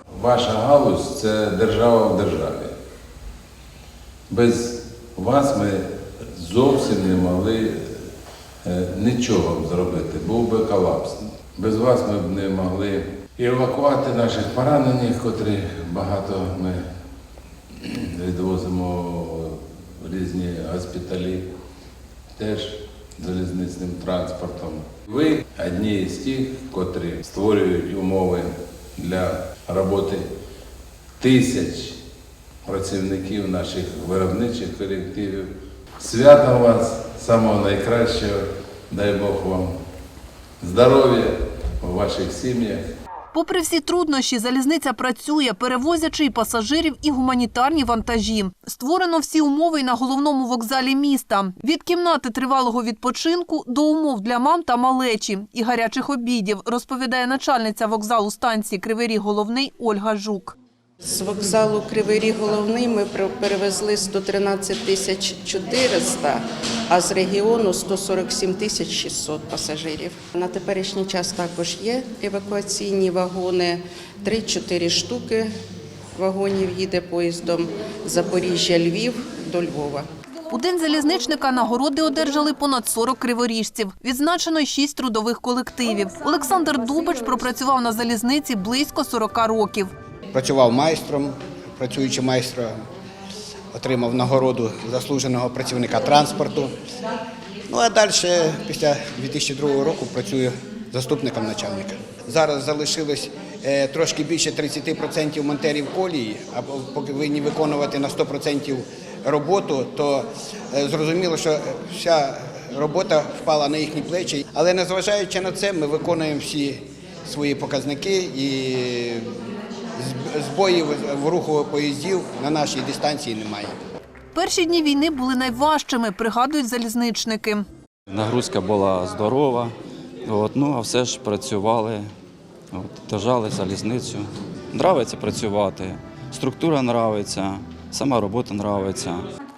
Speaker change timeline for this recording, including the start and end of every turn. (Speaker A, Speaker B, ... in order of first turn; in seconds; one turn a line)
Speaker A: 0.1-2.7
Speaker A: 4.3-5.8
Speaker A: 6.3-8.0
Speaker A: 8.6-16.9
Speaker A: 17.8-21.5
Speaker A: 22.4-30.3
Speaker A: 31.2-32.0
Speaker A: 32.6-39.7
Speaker A: 40.6-42.9
Speaker B: 43.3-60.5
Speaker C: 61.0-75.5
Speaker C: 76.2-80.1
Speaker B: 80.5-89.9
Speaker D: 90.3-92.8
Speaker D: 93.7-96.7
Speaker D: 97.7-119.3
Speaker D: 120.0-123.7
Speaker B: 124.3-127.7
Speaker E: 128.1-129.7
Speaker E: 130.2-132.1
Speaker E: 132.7-139.3